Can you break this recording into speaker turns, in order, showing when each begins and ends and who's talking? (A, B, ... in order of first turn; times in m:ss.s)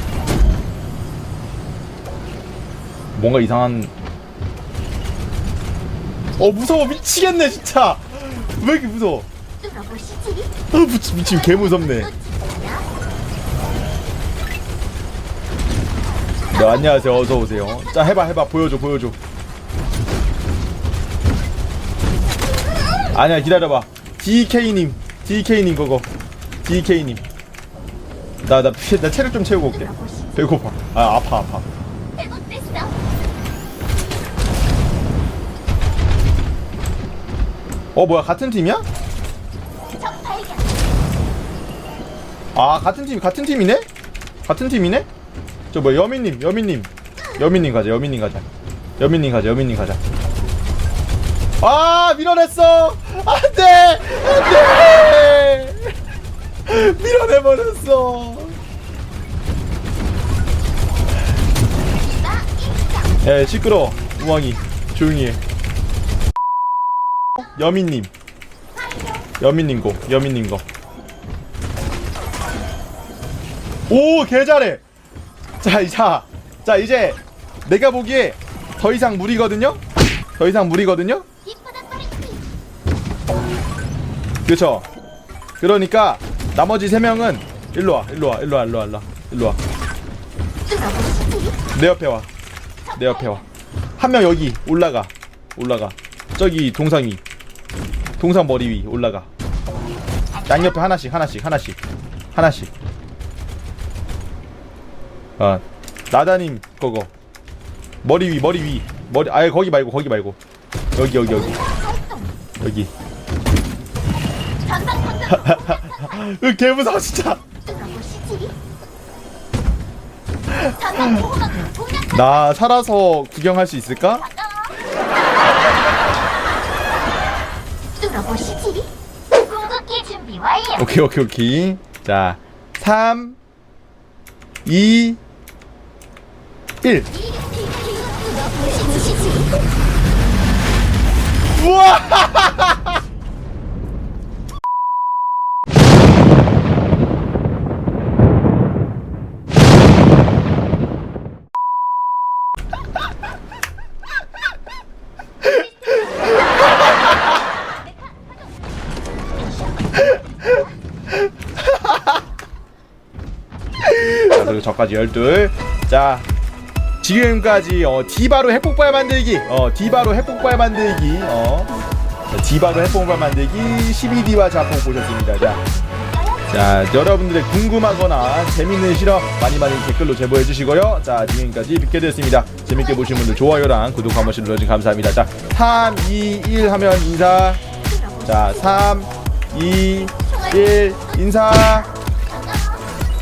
0:03.2-0:03.9 A
0:06.4-0:09.3 A
0:09.6-0:10.6 B
0:10.7-0:12.1 A
0:11.8-0:12.9 B
0:16.5-0:19.2 A
0:23.1-0:26.1 A
0:26.6-0:27.2 A
0:28.4-0:31.6 A
0:29.8-0:30.3 B
0:32.2-0:32.9 B
0:37.9-0:38.8 A
0:40.0-0:40.8 B
0:42.5-0:43.9 A
0:44.4-0:45.1 A
0:45.7-0:48.4 A
0:49.0-0:50.0 A
0:51.6-0:55.9 A
0:56.6-0:58.6 A
1:02.1-1:03.1 B
1:03.2-1:05.4 A
1:07.4-1:08.1 A
1:09.4-1:10.6 A
1:13.9-1:14.8 A
1:15.6-1:19.8 A
1:20.4-1:21.2 A
1:21.4-1:22.4 B
1:24.4-1:24.9 A
1:25.6-1:29.6 A
1:30.7-1:31.6 B
1:31.7-1:32.3 A
1:32.9-1:33.4 A
1:34.0-1:37.2 A
1:38.2-1:39.3 A
1:40.4-1:41.8 A
1:42.3-1:42.7 A
1:45.4-1:47.1 A
1:48.0-1:50.4 A
1:51.0-1:51.6 A
1:51.6-1:52.3 B
1:52.6-1:52.9 A
1:54.6-1:55.6 B
1:55.3-1:57.4 A
1:57.6-1:58.6 B
2:00.5-2:04.3 A
2:00.9-2:01.8 B
2:08.0-2:10.8 B
2:10.7-2:13.4 A
2:14.6-2:15.2 A
2:16.8-2:17.1 A
2:17.2-2:19.5 B
2:21.5-2:23.0 A
2:41.6-2:42.1 A
2:43.8-2:46.3 A
2:47.0-2:51.7 A
2:52.3-2:55.6 A
2:55.9-2:56.4 B
2:56.5-3:07.6 A
3:07.9-3:08.4 B
3:08.2-3:11.9 A
3:12.3-3:12.8 B